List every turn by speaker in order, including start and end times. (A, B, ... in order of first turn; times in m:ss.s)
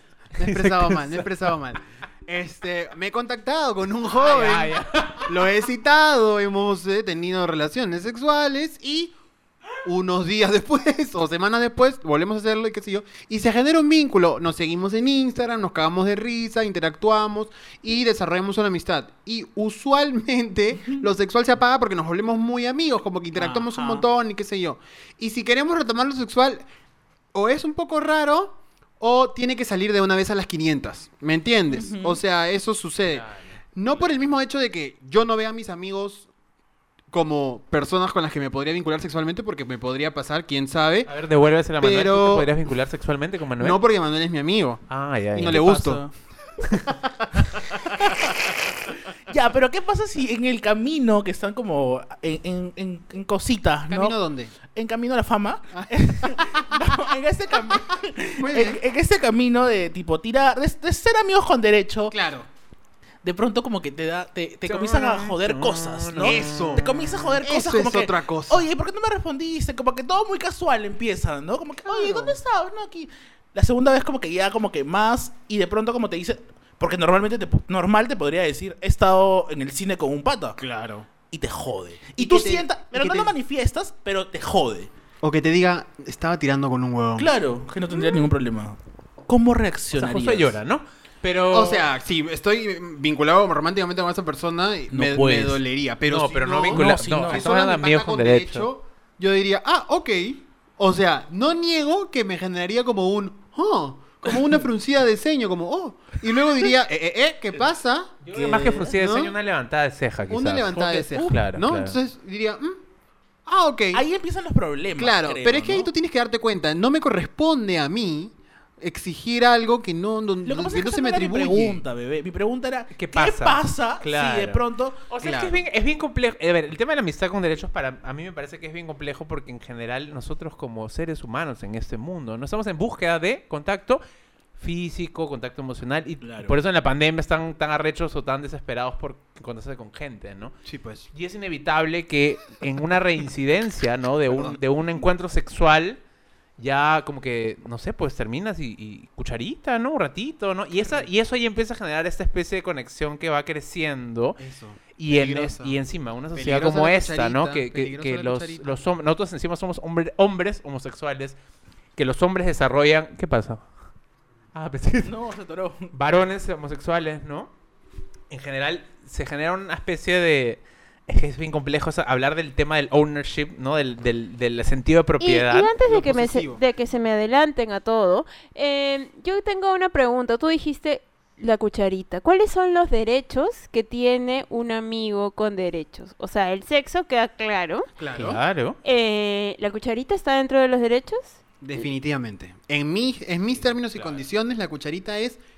0:00.4-0:01.2 A
0:00.4-0:09.2 B
0:04.2-0:05.4 A
0:09.8-0:26.6 B
0:23.4-0:24.1 C
0:27.3-0:33.2 B
0:31.7-0:32.2 C
0:33.1-0:34.1 A
0:33.8-0:36.3 B
0:37.1-0:41.1 B
0:41.1-0:43.8 A
0:41.8-0:42.5 B
0:43.6-0:44.8 B
0:44.9-0:45.7 A
0:45.4-0:46.0 B
0:45.5-0:46.1 C
0:46.9-0:48.4 B
0:47.9-0:48.3 C
0:49.3-1:02.2 C
0:53.9-0:54.6 B
0:55.8-0:56.8 B
0:58.4-0:58.8 B
1:02.1-1:02.5 B
1:03.2-1:20.6 C
1:04.7-1:06.9 A
1:06.2-1:08.7 B
1:11.8-1:12.4 B
1:20.6-1:21.1 B
1:21.3-1:24.9 C
1:22.2-1:23.3 B
1:25.2-1:27.3 B
1:27.2-1:30.6 C
1:29.9-1:31.9 A
1:31.5-1:48.2 B
1:34.9-1:35.6 C
1:36.1-1:38.7 A
1:36.7-1:37.5 C
1:48.2-1:52.0 A
1:48.3-1:48.9 C
1:49.0-1:49.3 B
1:50.3-1:52.8 B
1:53.5-1:54.0 B
1:53.9-1:55.9 C
1:55.0-2:01.8 B
2:00.4-2:05.1 C
2:02.9-2:14.0 A
2:05.2-2:05.6 B
2:14.6-2:20.6 A
2:16.2-2:16.6 C
2:20.7-2:21.1 B
2:21.1-2:26.0 A
2:26.6-2:34.4 A
2:30.8-2:31.1 B
2:34.4-2:35.8 B
2:35.0-2:41.4 A
2:36.4-2:38.8 B
2:42.0-2:43.7 A
2:44.5-2:45.1 A
2:45.0-2:45.9 C
2:45.9-2:47.5 A
2:48.3-2:55.7 A
2:55.2-3:07.9 D
2:55.8-2:56.6 B
3:08.0-3:08.4 B
3:08.1-3:08.8 A
3:08.8-3:11.4 D
3:11.6-3:15.4 B
3:13.5-3:14.2 A